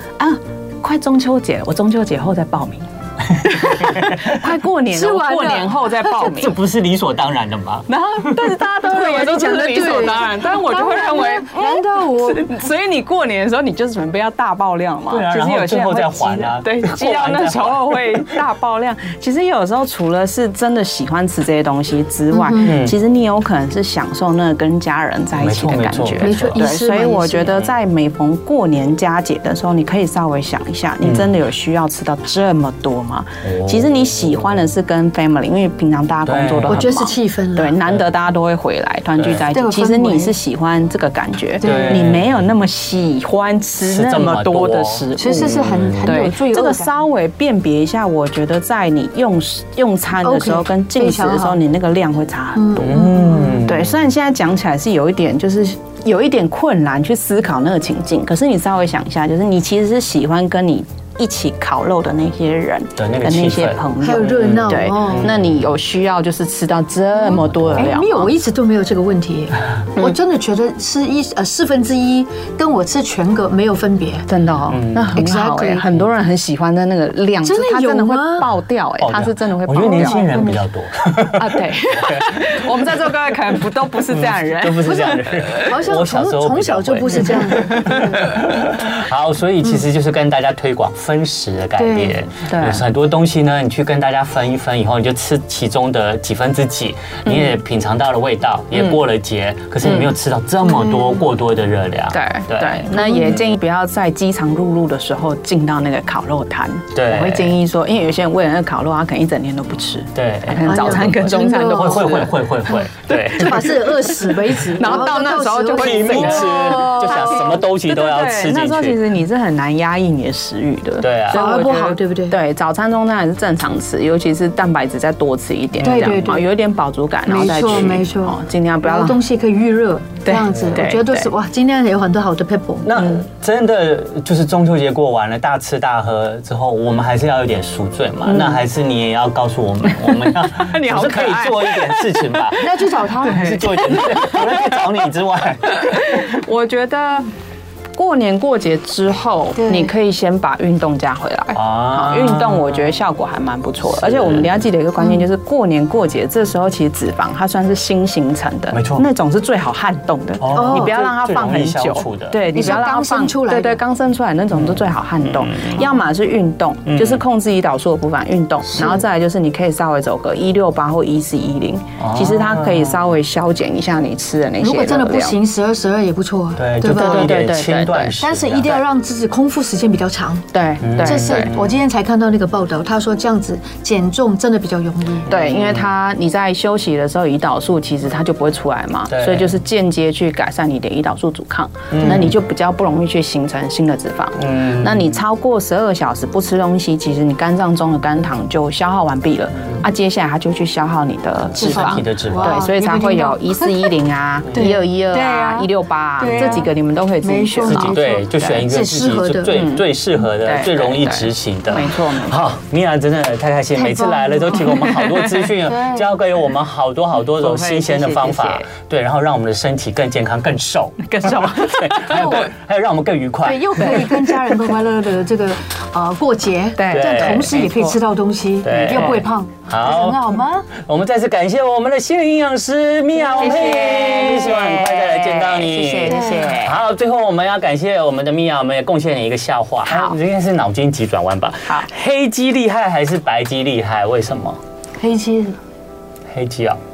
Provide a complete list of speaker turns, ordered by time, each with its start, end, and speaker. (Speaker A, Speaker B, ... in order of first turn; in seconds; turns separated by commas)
Speaker A: 0.2-6.5, Speaker B: 3.8-4.3, Speaker C: 4.9-6.3, Speaker B: 6.2-10.0, Speaker A: 7.9-68.3, Speaker C: 9.2-12.5, Speaker B: 15.1-18.3, Speaker C: 22.3-22.7, Speaker B: 22.6-23.0, Speaker B: 25.4-26.6, Speaker C: 26.2-27.6, Speaker B: 31.0-31.3, Speaker B: 33.4-34.6, Speaker B: 36.2-36.9, Speaker C: 36.7-37.8, Speaker B: 39.2-39.5, Speaker C: 39.5-40.4, Speaker C: 41.6-42.0, Speaker B: 41.6-42.5, Speaker B: 43.8-46.2, Speaker C: 45.1-47.0, Speaker C: 50.2-51.6, Speaker C: 52.5-53.6, Speaker B: 52.8-54.0, Speaker B: 63.0-65.7, Speaker C: 64.0-65.3, Speaker B: 67.3-68.0, Speaker C: 67.8-74.2, Speaker A: 74.3-80.3, Speaker B: 74.7-75.3, Speaker C: 75.2-75.8, Speaker C: 77.4-78.5, Speaker B: 79.0-82.6, Speaker C: 79.8-80.6, Speaker A: 81.3-85.7, Speaker B: 84.1-103.4, Speaker C: 84.8-88.3, Speaker A: 87.3-88.1, Speaker C: 91.8-92.2, Speaker A: 92.5-92.8, Speaker A: 97.2-97.6, Speaker A: 99.8-100.1, Speaker C: 100.6-101.2, Speaker A: 102.1-129.2, Speaker C: 103.0-103.4, Speaker B: 106.9-107.6, Speaker B: 110.1-113.7, Speaker C: 110.7-112.2, Speaker C: 113.3-116.9, Speaker B: 115.8-119.0, Speaker B: 121.0-121.5, Speaker C: 121.3-122.3, Speaker B: 125.8-126.3, Speaker C: 125.8-126.5, Speaker C: 127.2-133.0, Speaker B: 127.7-128.0, Speaker A: 130.2-131.3, Speaker B: 130.5-130.8, Speaker B: 132.8-142.6, Speaker A: 138.2-138.6, Speaker A: 140.0-144.8, Speaker C: 142.6-144.1, Speaker B: 143.2-146.1, Speaker A: 145.7-147.3, Speaker A: 147.9-175.4, Speaker C: 149.6-149.9, Speaker B: 151.5-153.0, Speaker B: 153.9-154.5, Speaker B: 158.7-159.1, Speaker B: 160.4-162.7, Speaker C: 160.5-161.1, Speaker C: 162.4-163.8, Speaker B: 164.5-165.7, Speaker B: 166.9-167.2, Speaker B: 172.0-173.1, Speaker C: 174.6-177.4, Speaker B: 176.6-178.8, Speaker A: 176.8-178.2, Speaker C: 178.2-180.5, Speaker A: 180.5-181.5, Speaker B: 180.8-181.7, Speaker C: 181.0-185.3, Speaker B: 185.3-185.9, Speaker A: 185.3-208.5, Speaker B: 189.1-189.5, Speaker B: 191.9-192.4, Speaker B: 194.4-195.2, Speaker B: 201.5-202.6, Speaker C: 201.6-203.9, Speaker C: 204.5-205.7, Speaker C: 206.2-206.7, Speaker B: 206.3-206.7, Speaker C: 207.2-209.5, Speaker B: 207.7-224.1, Speaker A: 209.5-212.4, Speaker C: 213.8-214.8, Speaker A: 214.0-215.7, Speaker C: 215.7-216.0, Speaker A: 217.3-218.6, Speaker A: 221.0-222.4, Speaker C: 222.1-222.5, Speaker C: 223.4-230.7, Speaker A: 223.9-224.5, Speaker A: 226.8-228.0, Speaker B: 226.9-227.5, Speaker B: 228.6-244.6, Speaker A: 228.9-229.2, Speaker A: 233.3-236.8, Speaker C: 236.1-236.5, Speaker A: 239.9-240.2, Speaker C: 245.0-245.6, Speaker B: 246.3-246.8